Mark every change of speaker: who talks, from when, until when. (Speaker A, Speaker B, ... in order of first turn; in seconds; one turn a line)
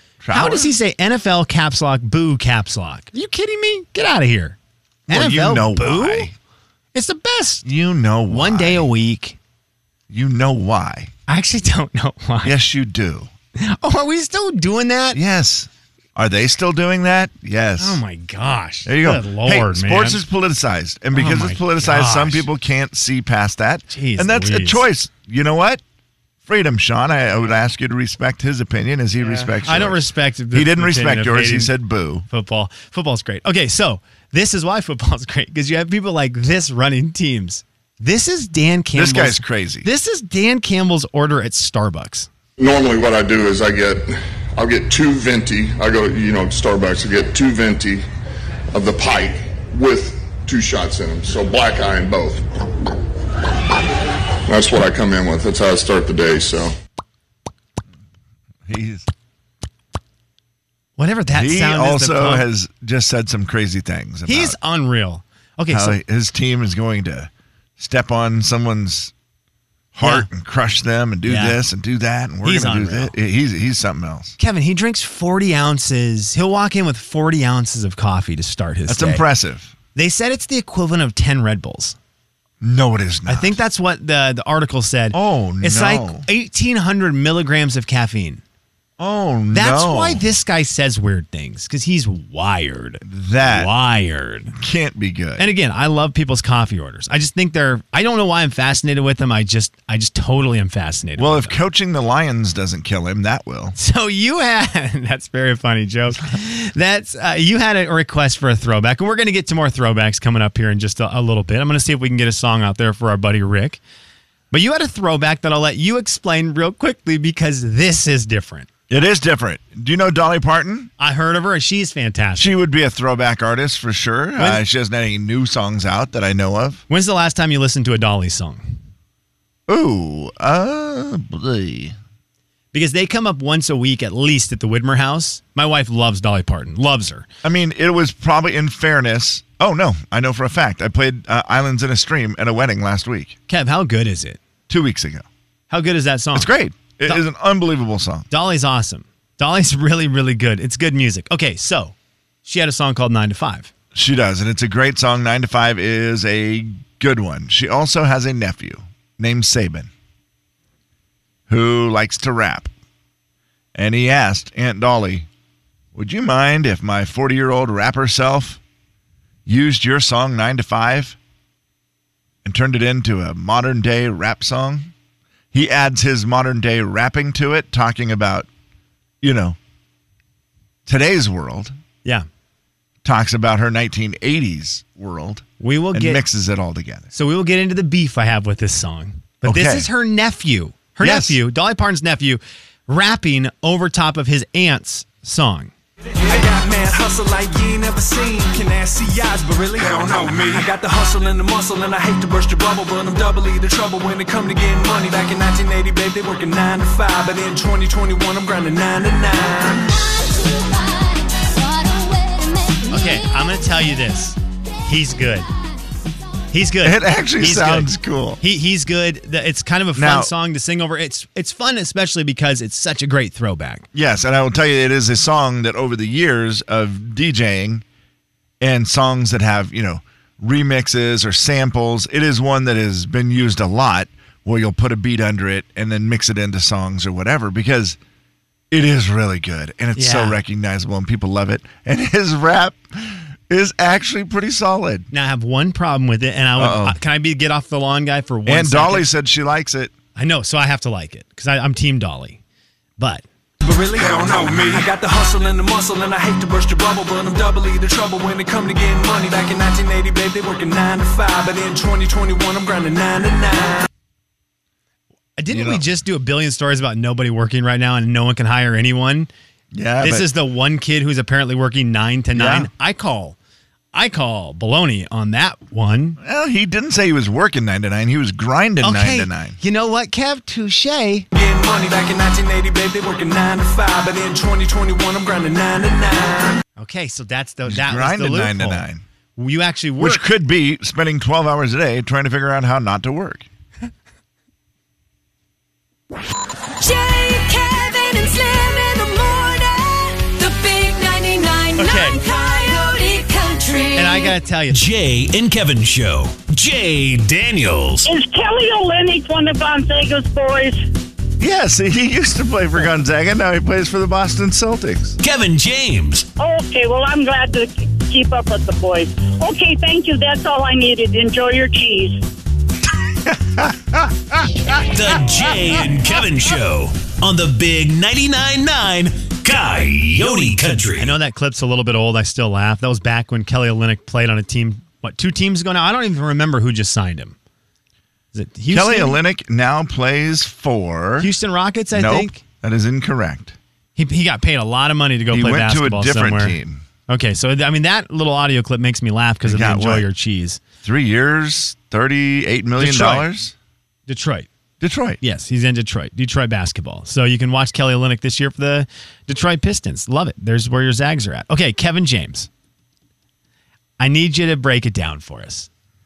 Speaker A: 0.2-0.7
Speaker B: 0.3-4.6
Speaker A: 5.1-6.3
Speaker B: 5.1-6.3
Speaker B: 6.9-7.7
Speaker A: 7.7-8.9
Speaker B: 8.3-9.4
Speaker A: 10.1-11.1
Speaker B: 11.3-12.6
Speaker A: 12.4-13.3
Speaker B: 13.6-15.2
Speaker A: 15.1-18.0
Speaker B: 17.8-20.2
Speaker A: 18.9-25.8
Speaker B: 21.1-22.5
Speaker B: 23.9-24.9
Speaker A: 26.4-32.3
Speaker B: 29.2-31.7
Speaker B: 32.3-42.3
Speaker A: 38.9-39.9
Speaker C: 42.6-48.0
Speaker C: 48.7-52.5
Speaker C: 54.5-56.7
Speaker A: 58.7-59.1
Speaker B: 61.0-62.5
Speaker A: 61.3-64.6
Speaker B: 64.3-66.0
Speaker A: 65.7-69.1
Speaker A: 69.9-74.4
Speaker B: 70.0-70.3
Speaker B: 71.2-71.6
Speaker B: 72.4-73.1
Speaker B: 74.4-79.2
Speaker A: 78.9-79.7
Speaker B: 80.0-82.0
Speaker A: 82.6-83.6
Speaker B: 83.3-88.4
Speaker A: 85.1-86.3
Speaker A: 89.0-90.2
Speaker B: 89.5-94.5
Speaker A: 93.0-93.7
Speaker A: 94.5-95.5
Speaker B: 95.4-101.6
Speaker A: 101.2-103.8
Speaker B: 103.8-113.8
Speaker B: 114.5-118.7
Speaker A: 118.9-120.9
Speaker B: 121.0-122.5
Speaker A: 122.4-126.8
Speaker B: 124.4-124.6
Speaker B: 126.9-128.8
Speaker A: 129.7-132.0
Speaker B: 132.7-137.3
Speaker A: 137.4-143.4
Speaker B: 143.5-144.4
Speaker A: 144.7-145.3
Speaker B: 145.7-146.5
Speaker A: 146.3-148.3
Speaker B: 148.3-151.9
Speaker B: 152.4-153.7
Speaker A: 153.9-159.9
Speaker A: 161.5-162.7
Speaker A: 163.8-165.3
Speaker A: 165.9-168.6
Speaker A: 169.5-171.2
Speaker A: 172.4-174.9
Speaker A: 175.5-178.5
Speaker A: 179.2-179.6
Speaker A: 180.9-181.7
Speaker A: 183.0-187.1
Speaker B: 185.6-186.2
Speaker B: 187.1-195.7
Speaker A: 189.4-189.9
Speaker A: 191.0-191.4
Speaker D: 196.2-209.9
Speaker B: 212.9-215.5
Speaker B: 216.5-223.9
Speaker A: 216.8-218.4
Speaker A: 219.9-220.3
Speaker A: 223.9-227.8
Speaker A: 228.6-238.0
Speaker A: 238.7-245.1
Speaker B: 240.0-240.4
Speaker B: 245.1-249.1
Speaker A: 246.6-247.0
Speaker A: 248.5-249.9
Speaker B: 250.2-252.4
Speaker B: 253.0-253.2
Speaker D: 253.6-263.9
Speaker B: 265.4-269.3
Speaker A: 265.5-265.9
Speaker A: 269.7-270.3
Speaker B: 270.0-273.4
Speaker A: 272.3-272.7
Speaker B: 273.9-276.2
Speaker A: 276.2-279.6
Speaker B: 278.8-281.3
Speaker D: 281.3-286.6
Speaker B: 286.8-288.9
Speaker A: 287.6-289.0
Speaker B: 289.4-290.2
Speaker A: 290.0-293.5
Speaker E: 296.8-304.4
Speaker B: 301.8-302.2
Speaker B: 304.0-304.8
Speaker F: 304.7-308.1
Speaker G: 308.1-310.8
Speaker A: 311.4-315.2
Speaker F: 315.2-316.3
Speaker G: 316.4-322.2
Speaker A: 323.2-324.6
Speaker F: 324.9-331.2
Speaker B: 331.0-337.4
Speaker B: 338.3-339.2
Speaker A: 338.7-341.3
Speaker B: 341.2-342.4
Speaker A: 341.9-343.6
Speaker B: 344.0-346.6
Speaker A: 345.3-346.9
Speaker B: 347.1-350.6
Speaker A: 349.4-350.1
Speaker A: 350.8-353.6
Speaker B: 352.8-353.3
Speaker B: 354.1-354.5
Speaker A: 354.8-355.2
Speaker B: 355.2-362.5
Speaker B: 364.0-365.7